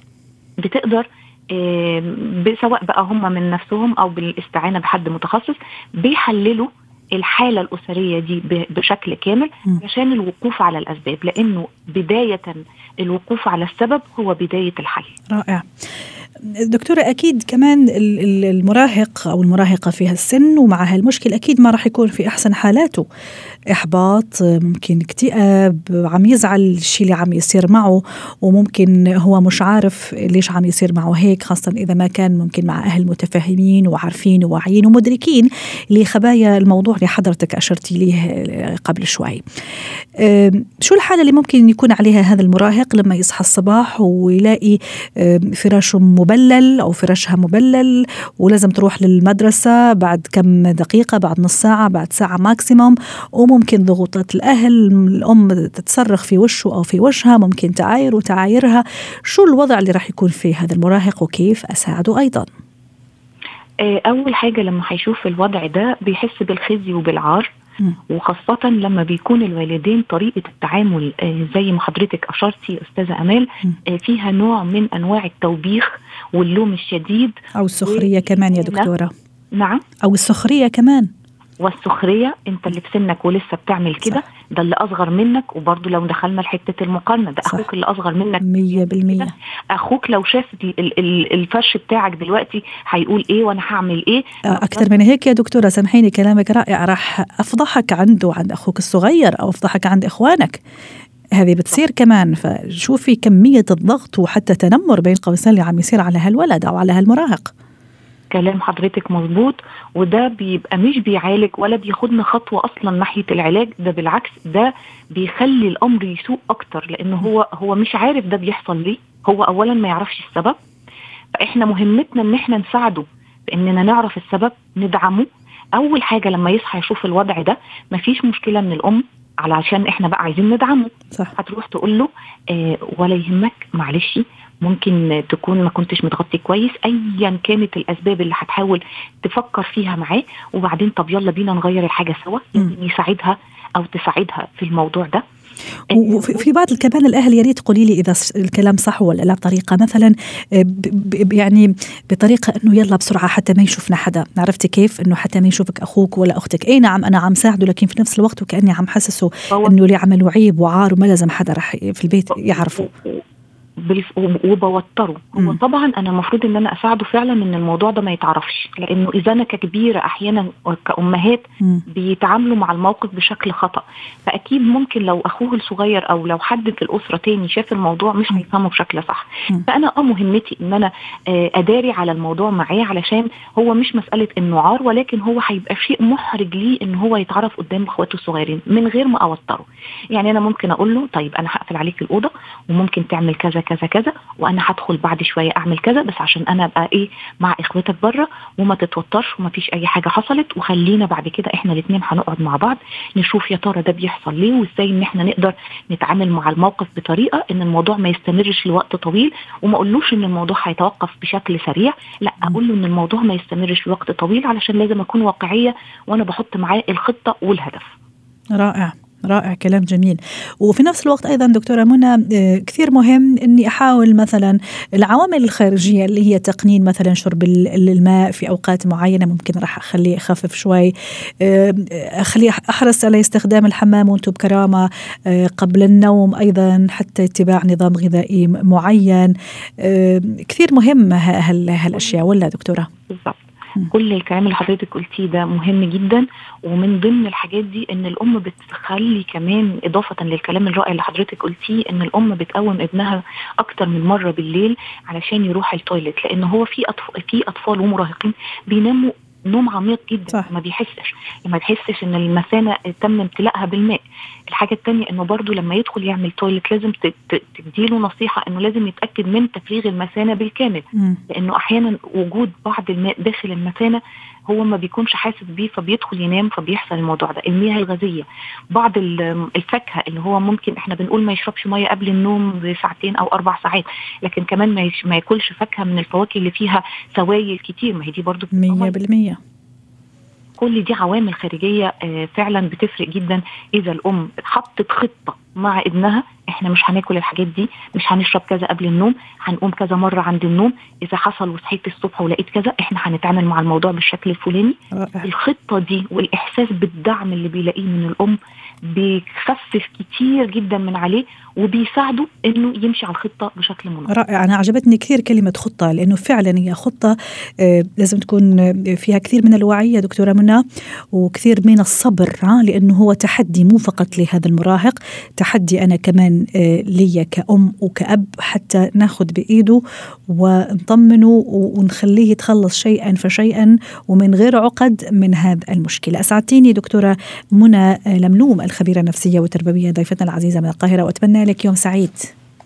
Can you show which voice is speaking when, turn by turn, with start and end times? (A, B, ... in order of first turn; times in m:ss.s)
0:00.6-0:15.2 A
0:15.3-0:15.7 B
0:16.5-0:23.0 B
0:23.8-0:39.4 B
0:40.2-1:02.5 B
1:03.8-1:07.5 A
1:08.1-1:17.3 A
1:17.6-1:19.1 B
1:17.9-1:18.9 A
1:19.6-1:19.8 A
1:20.0-1:21.1 B
1:21.6-1:34.9 A
1:28.4-1:29.3 B
1:34.5-1:40.6 B
1:41.4-1:47.5 B
1:48.3-2:00.6 A
2:01.4-2:25.2 A
2:25.9-2:26.4 A
2:25.9-2:42.9 B
2:39.5-2:39.8 A
2:42.5-2:43.2 A
2:43.8-3:37.9 A
3:38.5-4:02.9 B
4:03.1-4:24.0 A
4:24.5-4:49.0 A
4:48.5-4:49.4 B
4:50.6-5:14.1 A
5:05.0-5:05.3 B
5:14.1-5:20.6 B
5:21.1-5:42.3 B